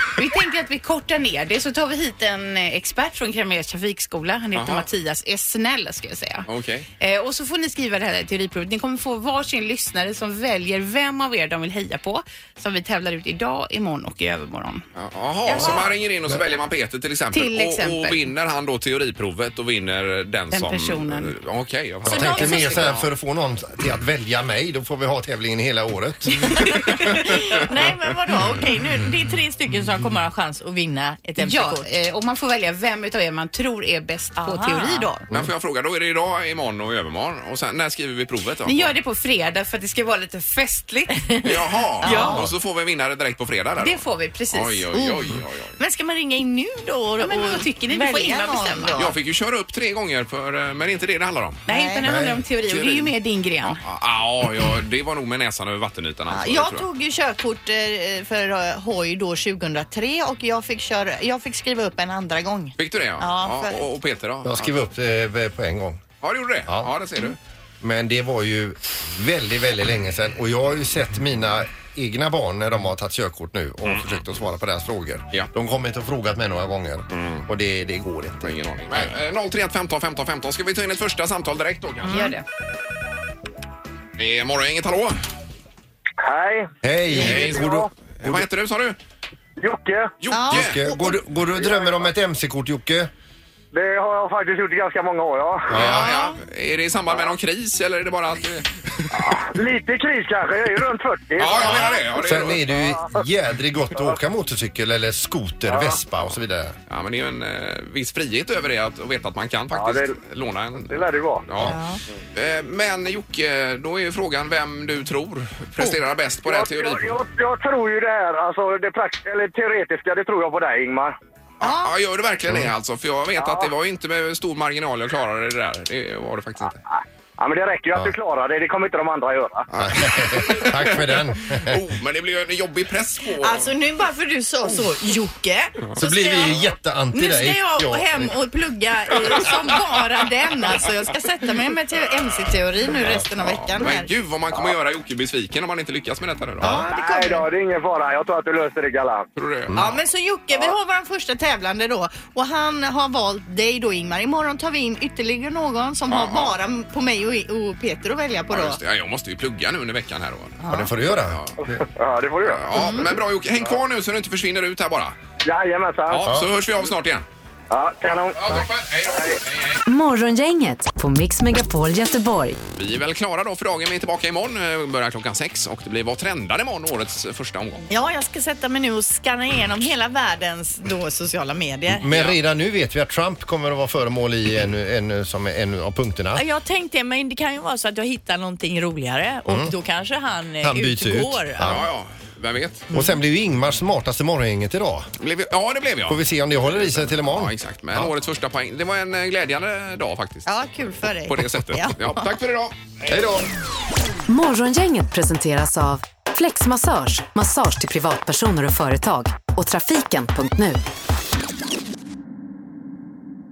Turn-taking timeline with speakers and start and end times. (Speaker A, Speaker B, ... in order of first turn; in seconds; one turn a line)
Speaker A: 0.2-6.5
Speaker B: 4.5-4.9
Speaker B: 6.5-6.9
Speaker A: 7.0-14.8
Speaker B: 14.9-23.0
Speaker A: 15.5-15.9
Speaker C: 15.5-15.8
Speaker A: 17.3-18.3
Speaker A: 20.5-21.3
Speaker A: 22.1-22.9
Speaker D: 22.1-26.6
Speaker C: 26.5-31.9
Speaker A: 31.4-35.2
Speaker C: 34.4-35.2
Speaker B: 35.3-38.9
Speaker A: 38.6-41.4
Speaker B: 41.4-45.8
Speaker C: 42.0-42.4
Speaker A: 42.0-42.4
Speaker A: 43.8-44.9
Speaker C: 44.9-49.1
Speaker A: 47.2-49.1
Speaker B: 48.9-51.6
Speaker A: 51.7-53.8
Speaker C: 51.7-52.1
Speaker D: 52.0-52.5
Speaker B: 52.6-53.1
Speaker B: 53.8-56.9
Speaker C: 56.3-63.9
Speaker B: 62.8-64.8
Speaker D: 64.4-66.0
Speaker B: 66.2-67.4
Speaker D: 67.8-79.1
Speaker B: 73.8-74.2
Speaker B: 77.1-77.5
Speaker B: 78.4-82.3
Speaker C: 82.0-82.3
Speaker A: 82.1-82.4
Speaker B: 84.2-85.2
Speaker E: 86.2-86.7
Speaker D: 86.8-88.5
Speaker B: 87.2-89.0
Speaker E: 87.4-87.9
Speaker E: 89.6-90.2
Speaker B: 90.2-90.8
Speaker C: 90.3-91.2
Speaker D: 90.5-93.1
Speaker E: 91.5-92.1
Speaker E: 93.7-95.7
Speaker D: 95.7-96.0
Speaker B: 95.7-99.3
Speaker C: 95.8-96.4
Speaker E: 99.1-101.9
Speaker B: 101.4-102.8
Speaker D: 101.5-106.8
Speaker E: 102.8-103.2
Speaker E: 105.7-106.0
Speaker B: 106.9-111.8
Speaker E: 109.7-110.1
Speaker E: 110.9-111.4
Speaker C: 111.6-112.0
Speaker B: 112.3-117.1
Speaker E: 116.4-121.1
Speaker B: 121.6-126.8
Speaker C: 121.6-121.9
Speaker E: 123.4-123.7
Speaker E: 126.9-129.7
Speaker B: 129.7-133.7
Speaker D: 129.8-131.8
Speaker C: 133.4-136.5
Speaker D: 135.9-138.3
Speaker C: 137.1-144.1
Speaker B: 143.2-146.8
Speaker D: 146.6-146.9
Speaker C: 146.6-147.5
Speaker E: 146.9-149.3
Speaker B: 149.3-150.0
Speaker C: 149.7-158.8
Speaker B: 156.1-156.6
Speaker B: 158.5-161.5
Speaker C: 160.6-160.9
Speaker D: 160.7-161.8
Speaker E: 161.6-162.9
Speaker B: 162.4-165.2
Speaker C: 162.7-163.1
Speaker E: 165.4-166.3
Speaker B: 166.1-167.2
Speaker D: 166.2-166.5
Speaker E: 167.7-169.4
Speaker B: 168.3-169.8
Speaker F: 169.8-172.6
Speaker B: 172.8-177.9
Speaker C: 177.9-182.1
Speaker D: 181.9-186.4
Speaker B: 182.1-182.4
Speaker C: 186.3-191.8
Speaker D: 189.5-189.7
Speaker D: 190.6-191.8
Speaker B: 191.6-192.9
Speaker C: 192.9-193.2
Speaker D: 192.9-195.1
Speaker B: 195.2-200.5
Speaker D: 196.1-198.1
Speaker C: 200.4-202.2
Speaker B: 201.2-202.7
Speaker D: 203.1-203.5
Speaker F: 204.3-210.8